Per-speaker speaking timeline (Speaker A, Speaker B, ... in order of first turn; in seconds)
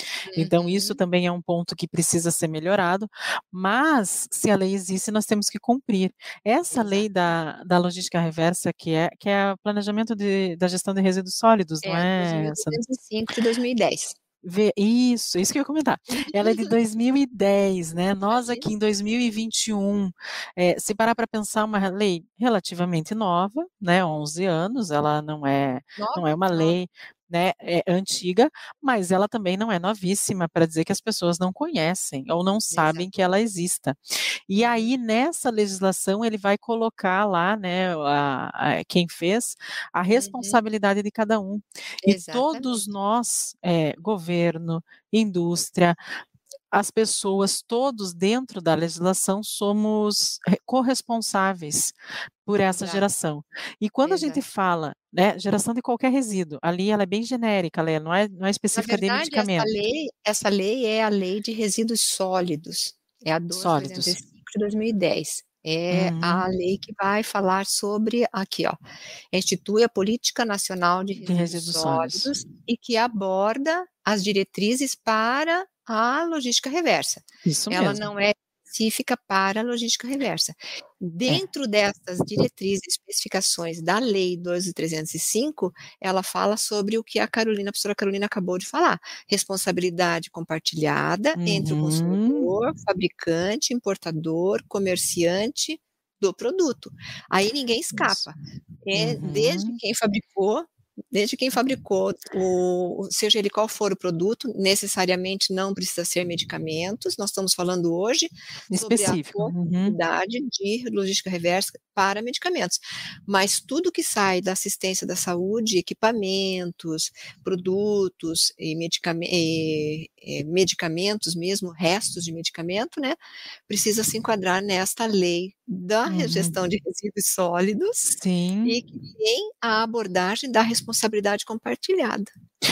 Speaker A: 0.3-1.0, 6.7-7.1, 11.8-14.2, 16.1-16.8, 18.3-18.7, 26.0-26.8, 32.7-33.1, 34.6-34.9, 40.1-40.6, 42.0-42.8, 52.7-53.1, 54.0-54.4, 58.7-68.8, 69.3-123.2, 123.7-132.3
Speaker B: 0.3-12.8, 14.4-46.0, 46.7-59.7, 63.5-64.2, 65.9-66.5, 71.2-72.3, 77.5-78.1, 91.4-92.5, 97.9-98.2, 99.0-99.8, 108.7-110.0, 126.1-126.5, 128.2-128.8